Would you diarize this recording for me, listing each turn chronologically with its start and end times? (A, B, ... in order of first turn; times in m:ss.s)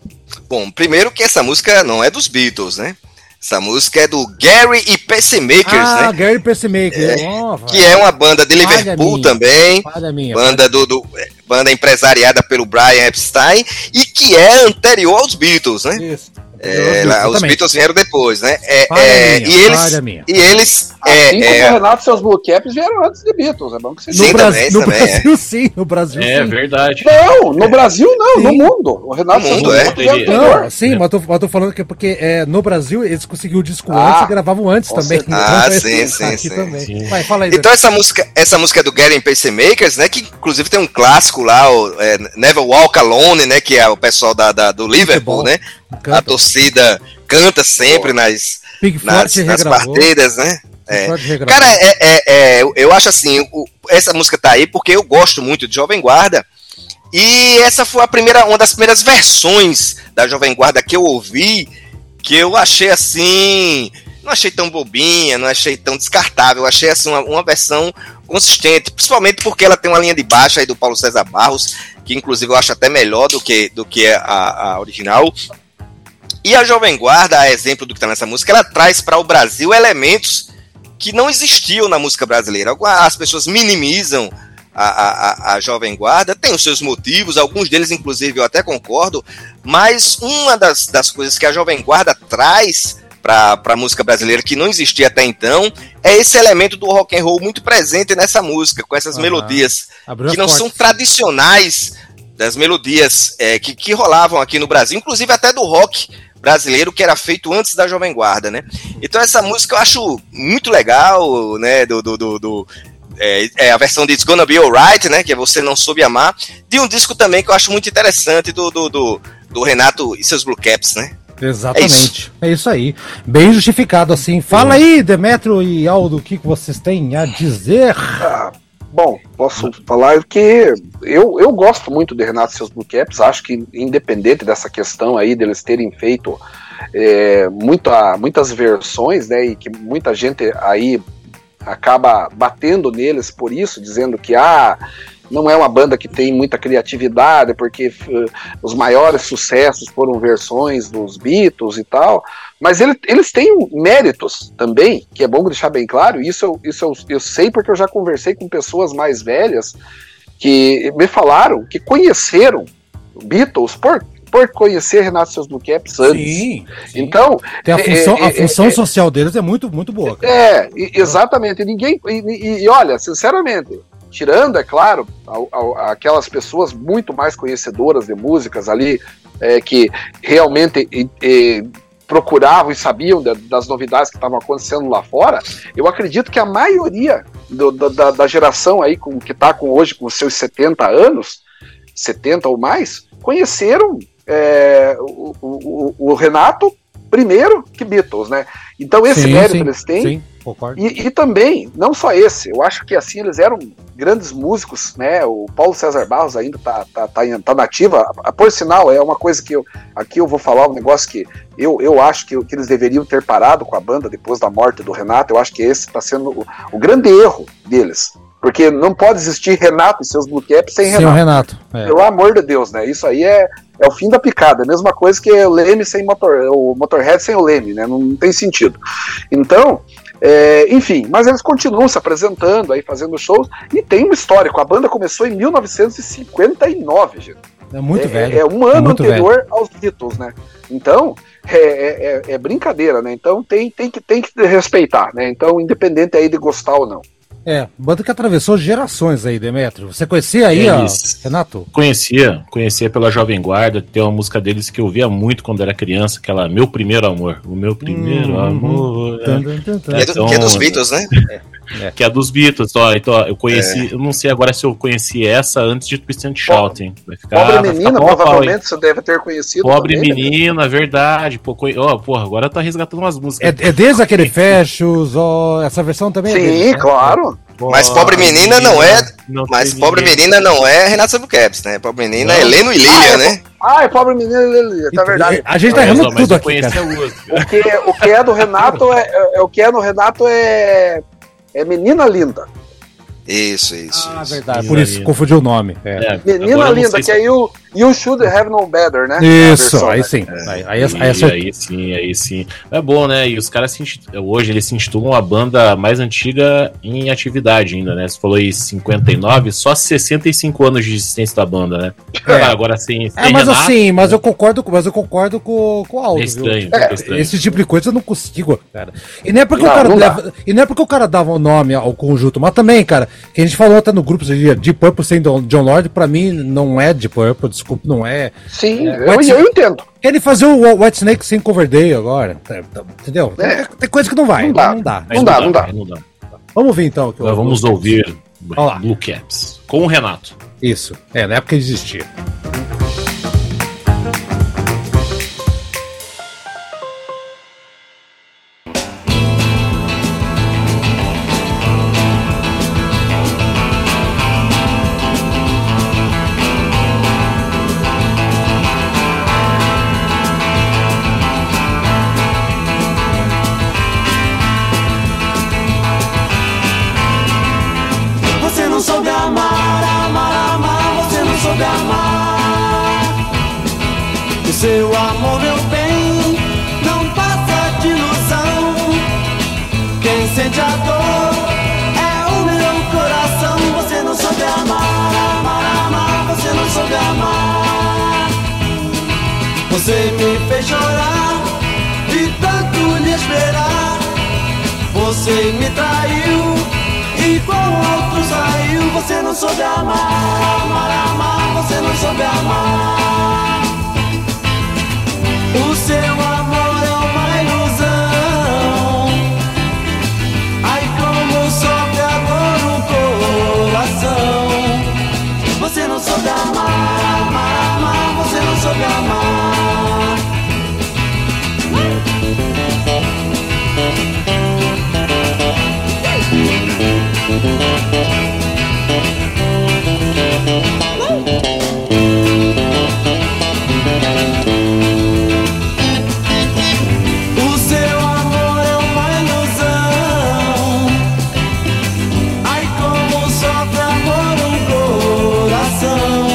0:00.5-0:06.1 A
0:05.7-0:08.0 B
0:06.9-0:16.0 A
0:08.6-0:10.7 B
0:16.0-0:17.6 B
0:16.6-0:21.8 A
0:18.9-0:20.4 B
0:21.0-0:24.4 C
0:24.1-0:26.6 B
0:24.1-0:25.3 A
0:26.1-0:27.7 D
0:27.0-0:30.7 C
0:28.3-0:28.7 B
0:29.3-0:30.0 A
0:29.5-0:31.0 D
0:30.3-0:37.7 B
0:33.9-0:34.3 C
0:34.9-0:35.5 C
0:35.3-0:36.8 A
0:36.8-0:37.2 D
0:37.5-0:45.6 A
0:45.0-0:46.4 B
0:46.1-0:56.4 A
0:48.8-0:50.1 B
0:50.9-0:51.8 B
0:57.1-1:01.7 A
1:02.2-1:15.3 A
1:16.4-1:20.5 A
1:21.0-1:52.7 A
1:39.1-1:40.9 B
1:53.2-2:01.1 A
2:01.4-2:08.3 B
2:01.8-2:02.1 A
2:04.5-2:04.8 D
2:08.2-2:16.4 C
2:16.9-2:21.0 C
2:21.7-2:24.8 C
2:25.3-2:39.8 C
2:40.4-2:48.8 C
2:46.0-2:50.4 B
2:50.2-3:11.4 C
3:12.0-3:20.1 C
3:19.0-3:20.8 B
3:20.8-3:41.3 C
3:40.8-3:42.0 B
3:41.8-3:48.8 C
3:49.3-3:57.4 C
3:57.7-3:59.3 B
3:57.9-4:07.1 C
4:07.5-4:11.7 B
4:10.5-4:11.2 D
4:11.7-4:20.8 D
4:17.8-4:20.2 B
4:19.9-4:21.1 A
4:22.0-4:28.6 D
4:23.5-4:23.8 A
4:26.5-4:26.7 C
4:27.3-4:30.4 C
4:29.6-4:34.4 D
4:33.4-4:37.2 B
4:36.3-4:37.4 C
4:37.6-4:40.2 D
4:37.7-4:43.4 A
4:42.2-4:42.6 D
4:42.8-4:46.0 C
4:44.9-4:46.9 B
4:45.7-4:47.6 D
4:47.3-4:51.0 C
4:51.6-4:52.5 C
4:53.3-4:54.4 A
4:53.9-4:56.1 B
4:54.5-4:55.1 D
4:56.0-4:57.2 D
4:56.3-5:00.2 C
4:59.2-5:01.4 B
5:00.8-5:14.2 D
5:12.3-5:12.6 B
5:13.2-5:29.4 B
5:16.1-5:17.6 D
5:19.6-5:20.2 C
5:28.5-5:29.8 C
5:30.0-5:35.6 B
5:33.4-5:33.7 C
5:34.4-5:35.7 C
5:35.1-5:36.0 D
5:36.6-5:38.0 B
5:37.2-5:40.4 D
5:38.6-5:38.8 B
5:40.6-5:42.1 B
6:08.6-6:09.3 E
6:10.4-6:11.4 E
6:14.7-6:16.0 E
6:17.0-6:18.8 E
6:20.2-6:21.1 E
6:22.2-6:24.6 E
6:25.3-6:27.3 E
6:30.7-6:31.0 E
6:35.1-6:36.2 E
6:38.0-6:38.6 E
6:51.5-6:52.3 E
6:53.6-6:54.0 E
6:57.2-6:58.6 E